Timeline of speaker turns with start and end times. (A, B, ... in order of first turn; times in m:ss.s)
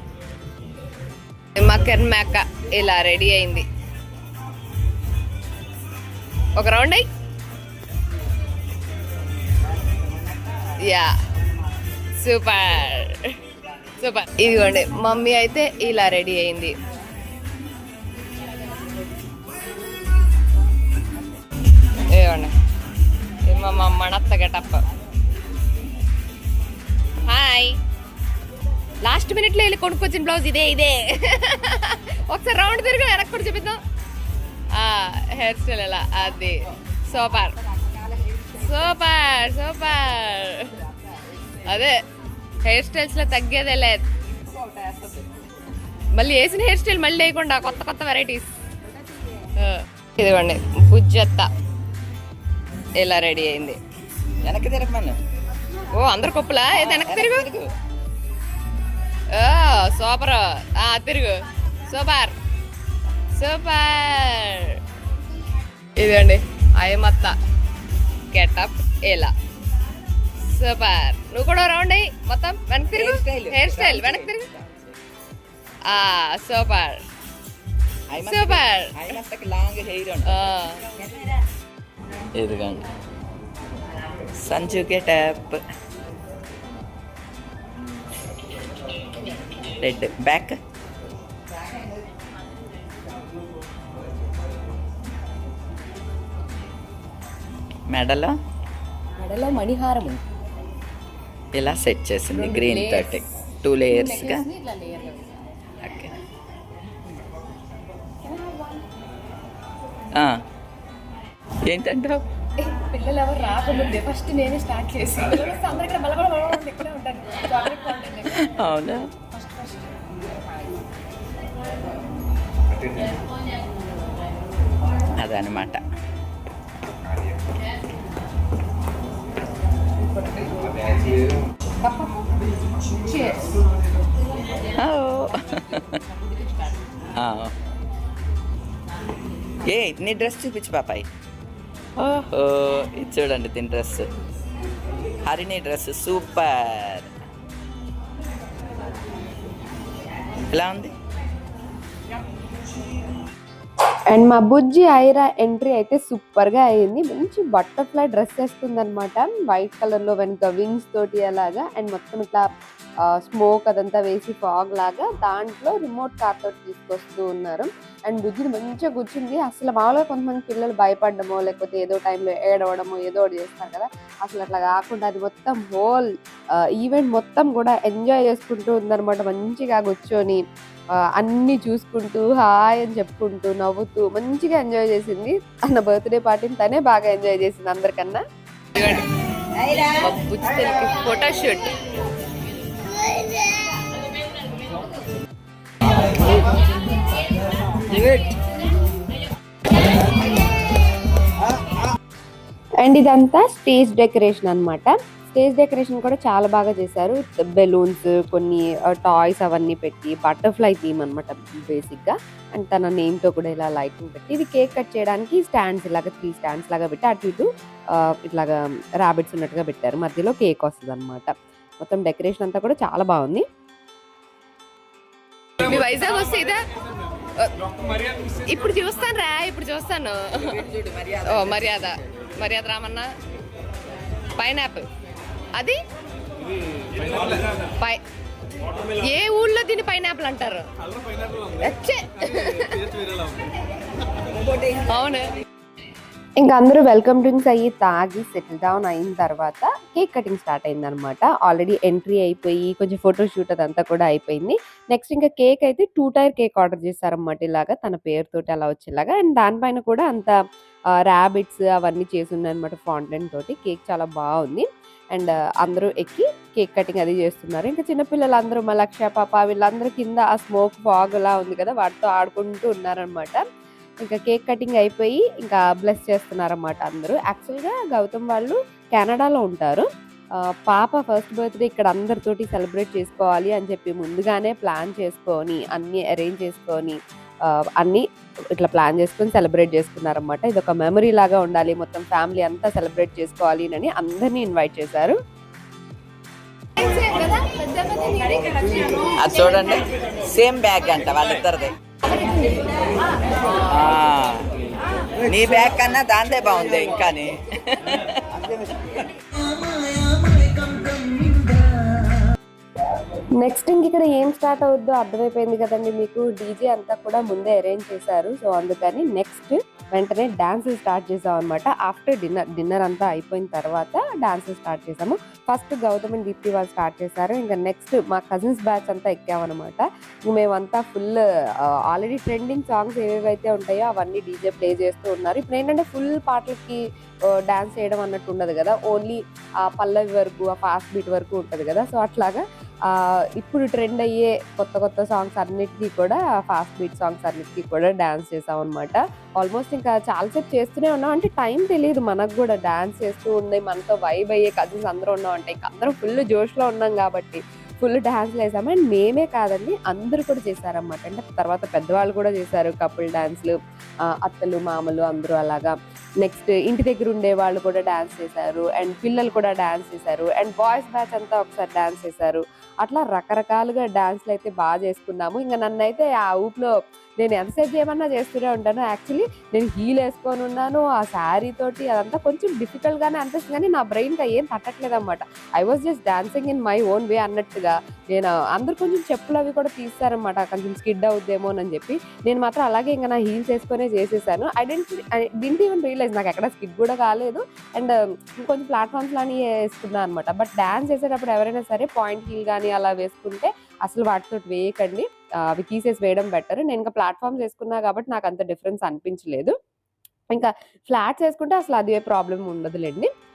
0:01.6-0:03.7 A
0:06.6-0:07.1 A
0:10.8-0:11.2 A
0:12.2-0:13.4 A
0:14.0-0:16.8 A
0:22.1-0:22.5 A
0:23.5-0:24.8 A
0:27.3-0:27.8 A
0:29.0-0:33.8 A
0:34.7-0:37.6 A
0:38.5-0:40.9 A
0:41.6-0:41.9 A
0:42.6-0:44.0 A
0:46.1-0:48.5 A
0:49.5-0:51.5 A
0:53.0-0:53.8 A
0:54.4-0:55.2 B
0:55.9-0:57.5 A
0:56.7-0:57.7 B
0:59.3-1:02.3 A
1:03.3-1:04.8 A
1:06.0-1:07.3 A
1:08.3-1:09.3 A
1:10.5-1:14.5 A
1:12.9-1:14.9 B
1:15.8-1:17.0 A
1:18.1-1:20.4 B
1:18.2-1:18.9 A
1:20.2-1:20.8 A
1:22.3-1:22.8 B
1:24.3-1:25.6 B
1:29.8-1:30.6 B
1:37.9-1:38.4 B
1:39.2-1:40.2 A
1:41.5-1:44.5 B
1:42.4-1:43.2 A
1:43.9-1:45.2 A
1:45.8-1:46.1 B
1:48.2-1:48.7 A
1:50.2-1:50.4 B
1:51.6-1:52.2 B
1:52.6-1:58.4 A
1:58.2-1:59.1 B
1:59.3-1:59.9 A
2:05.1-2:05.8 B
2:10.2-2:10.5 A
2:11.8-2:12.1 A
2:13.1-2:13.4 A
2:14.7-2:16.0 B
2:17.2-2:17.5 B
2:19.6-2:21.0 B
2:22.0-2:24.1 B
2:25.2-2:27.1 B
2:30.5-2:30.9 B
2:34.1-2:42.4 C
2:43.0-3:00.4 C
3:01.1-3:08.2 C
3:08.8-3:09.1 A
3:09.9-3:11.8 A
3:22.8-3:43.4 C
3:45.6-3:46.6 A
3:48.2-3:53.1 A
3:54.4-3:54.8 A
3:55.5-3:55.8 A
3:59.0-4:00.7 A
4:01.5-4:03.0 A
4:04.7-4:05.3 A
4:06.4-4:20.3 C
4:21.1-4:33.4 C
4:34.0-4:39.8 C
4:40.6-4:47.0 C
4:47.5-4:48.0 C
4:48.6-4:55.2 C
4:56.8-4:58.9 A
4:59.2-5:01.8 B
5:03.6-5:04.4 B
5:05.3-5:08.2 B
5:13.4-5:36.8 C
5:37.4-6:03.6 C
6:04.1-6:49.5 C
6:50.3-6:53.1 C